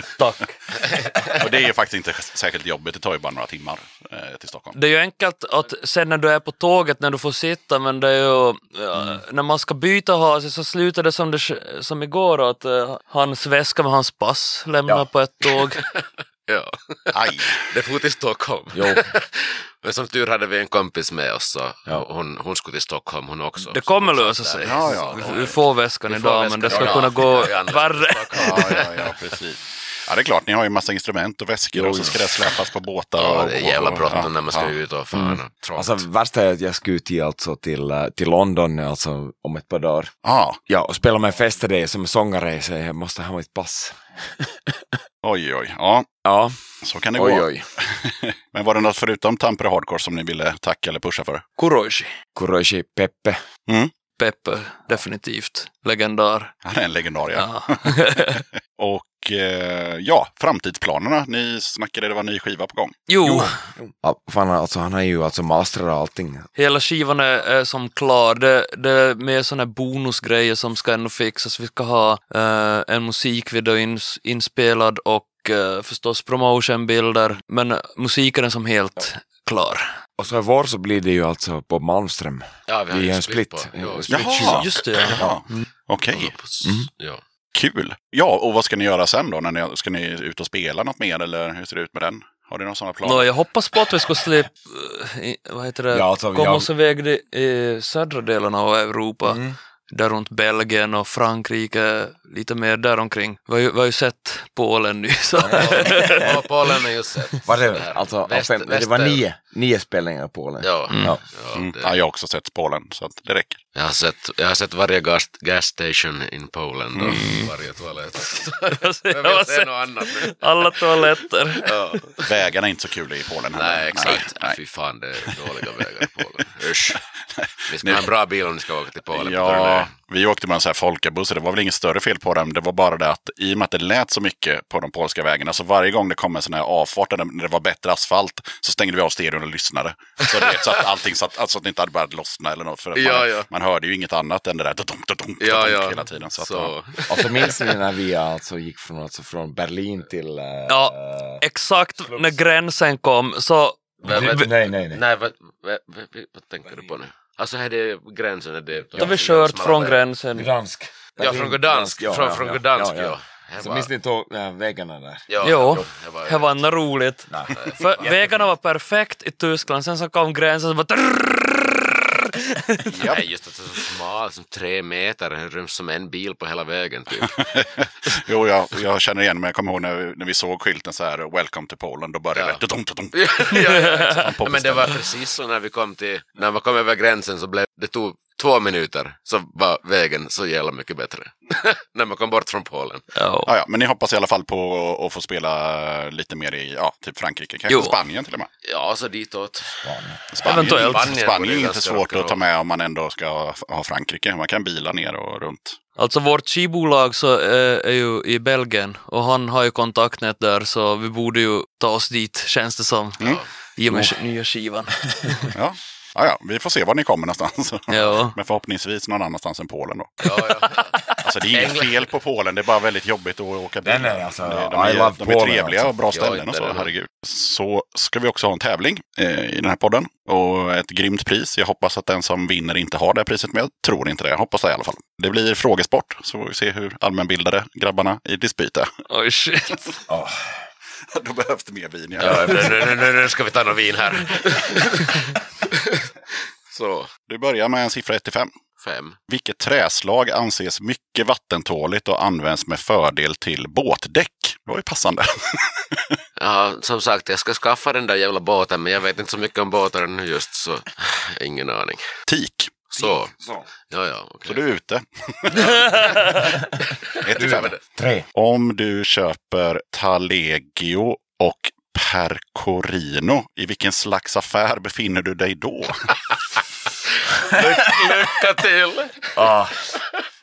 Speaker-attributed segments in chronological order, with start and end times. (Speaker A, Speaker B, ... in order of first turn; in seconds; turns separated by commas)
Speaker A: 0.2-0.6, Speaker B: 0.8-1.1, Speaker C: 1.4-4.8, Speaker A: 4.8-15.8, Speaker B: 15.8-29.2, Speaker C: 17.1-17.7, Speaker D: 18.7-19.1, Speaker A: 23.7-28.8, Speaker C: 24.6-25.6, Speaker D: 26.7-27.5, Speaker C: 28.3-34.8, Speaker D: 31.7-32.5, Speaker B: 33.2-36.1, Speaker D: 35.1-40.1, Speaker C: 40.2-40.6, Speaker D: 40.7-45.0, Speaker C: 45.2-46.1, Speaker D: 46.2-46.6, Speaker C: 46.8-51.5, Speaker D: 47.1-47.7, Speaker A: 51.6-52.1, Speaker D: 52.4-53.4, Speaker C: 53.7-53.9, Speaker A: 54.2-56.5, Speaker C: 56.6-63.0, Speaker A: 57.4-58.4, Speaker A: 63.1-63.6, Speaker D: 63.2-66.5, Speaker A: 66.6-79.9, Speaker D: 80.2-85.4, Speaker B: 82.7-85.1, Speaker C: 84.1-86.4, Speaker A: 84.4-85.6, Speaker B: 86.1-87.2, Speaker C: 87.5-93.3, Speaker A: 93.0-106.4, Speaker D: 95.9-96.7, Speaker D: 99.2-99.6, Speaker B: 105.4-109.2, Speaker D: 105.5-105.9, Speaker D: 107.5-111.2, Speaker B: 110.6-112.0, Speaker A: 110.9-111.2, Speaker C: 111.5-113.6, Speaker B: 113.8-122.3, Speaker C: 116.9-117.2, Speaker A: 117.1-117.5, Speaker A: 118.7-121.8, Speaker C: 122.3-124.6, Speaker B: 123.5-127.0, Speaker C: 126.9-128.1, Speaker B: 127.7-129.9, Speaker C: 129.1-146.8, Speaker B: 142.9-143.5, Speaker B: 145.4-147.6, Speaker D: 147.1-151.4, Speaker A: 150.7-154.5, Speaker D: 152.1-152.4, Speaker B: 154.0-160.0, Speaker D: 154.1-155.0, Speaker D: 159.0-159.2, Speaker A: 159.0-160.5, Speaker D: 160.3-165.2, Speaker B: 161.2-163.9, Speaker B: 165.3-166.7, Speaker A: 165.4-172.9, Speaker D: 167.3-168.1, Speaker B: 167.5-168.4, Speaker B: 172.9-177.4, Speaker C: 172.9-173.2, Speaker C: 177.2-185.0, Speaker B: 182.3-182.6, Speaker B: 183.1-193.1, Speaker A: 193.1-193.5, Speaker C: 193.5-198.5, Speaker A: 197.7-198.0, Speaker B: 198.6-199.9, Speaker D: 199.8-200.3, Speaker C: 200.3-205.8, Speaker B: 200.4-202.4, Speaker A: 200.4-201.1, Speaker A: 206.0-215.5, Speaker B: 213.2-213.5, Speaker D: 213.9-214.2, Speaker D: 215.1-215.5, Speaker C: 215.5-220.2, Speaker A: 217.9-218.4, Speaker B: 220.2-222.1, Speaker C: 221.2-238.9, Speaker D: 223.8-225.9, Speaker B: 226.1-226.9, Speaker A: 239.1-240.0, Speaker D: 240.1-240.7, Speaker C: 241.1-242.9, Speaker B: 242.2-246.1, Speaker B: 246.7-247.1, Speaker C: 247.3-248.5, Speaker B: 248.8-249.2, Speaker C: 249.3-256.2, Speaker B: 256.4-262.1, Speaker C: 262.3-262.8, Speaker B: 262.9-263.3, Speaker D: 263.0-263.7, Speaker B: 263.9-264.6, Speaker C: 264.5-265.8, Speaker B: 265.6-266.4, Speaker A: 266.0-266.3, Speaker B: 267.2-267.8, Speaker C: 267.2-267.8, Speaker D: 267.4-268.3, Speaker C: 268.3-276.1, Speaker B: 277.4-279.4, Speaker D: 279.4-279.8